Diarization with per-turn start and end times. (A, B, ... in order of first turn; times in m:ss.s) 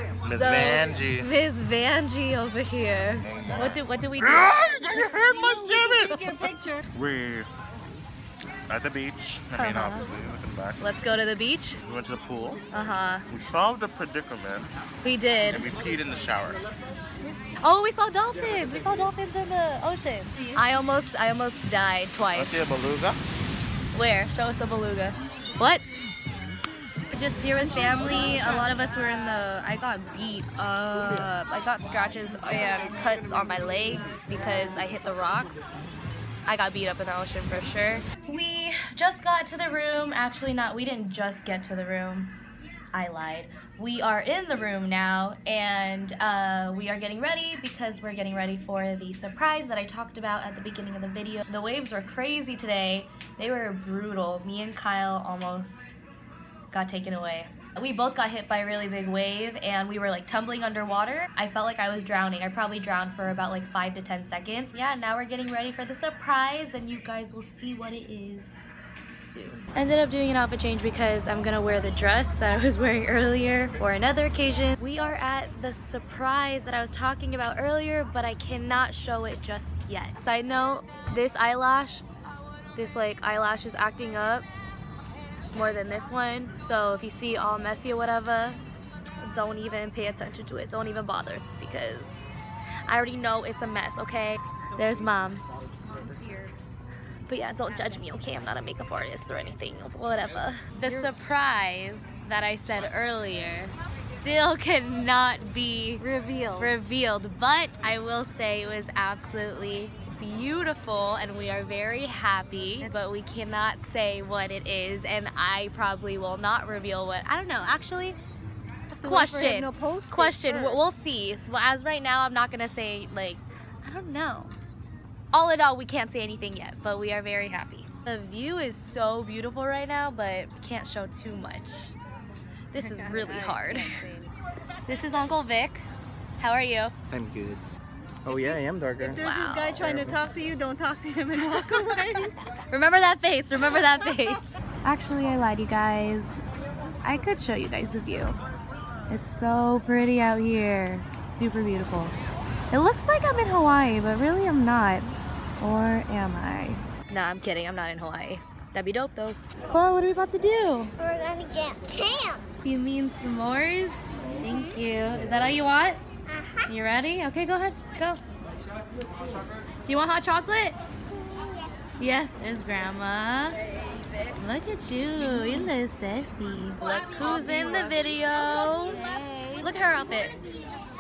0:00.2-0:01.3 A
0:00.3-0:04.5 B
0:03.4-0:03.7 A
0:04.3-0:06.4 A
0:05.2-0:06.8 C
0:06.9-0:07.5 A
0:08.7-0:10.8 A
0:09.6-0:10.1 B
0:10.8-0:11.8 B
0:11.8-0:12.6 A
0:12.7-0:13.2 B
0:13.3-0:14.7 A
0:15.0-0:15.7 B
0:15.5-0:16.6 A
0:17.6-0:22.7 B
0:22.3-0:23.2 A
0:23.9-0:25.9 B
0:27.1-0:35.5 B
0:36.5-0:42.3 B
0:42.9-0:56.0 B
0:56.7-1:22.0 B
1:22.8-1:24.5 B
1:25.5-1:28.6 B
1:29.2-1:32.3 B
1:32.9-1:35.4 B
1:36.1-1:36.5 C
1:37.3-1:46.0 B
1:46.0-1:46.7 C
1:46.6-1:58.2 B
1:58.9-2:00.9 C
1:59.0-2:04.6 B
2:05.3-2:12.0 B
2:12.7-2:14.0 B
2:12.8-2:14.3 C
2:14.9-2:15.9 B
2:16.4-2:16.9 B
2:17.1-2:17.6 D
2:18.2-2:19.2 D
2:19.0-2:19.9 B
2:19.1-2:22.3 C
2:19.8-2:20.2 D
2:22.7-2:26.4 B
2:27.0-2:28.4 B
2:29.1-2:32.2 B
2:32.7-2:41.0 B
2:41.0-2:42.5 E
2:42.6-2:46.0 B
2:44.4-2:44.8 E
2:46.3-2:46.7 E
2:46.7-2:48.2 B
2:49.9-2:50.8 B
2:51.1-2:52.0 E
2:52.0-2:53.6 B
2:54.4-3:00.4 B
2:57.2-2:58.1 C
2:58.6-2:59.1 C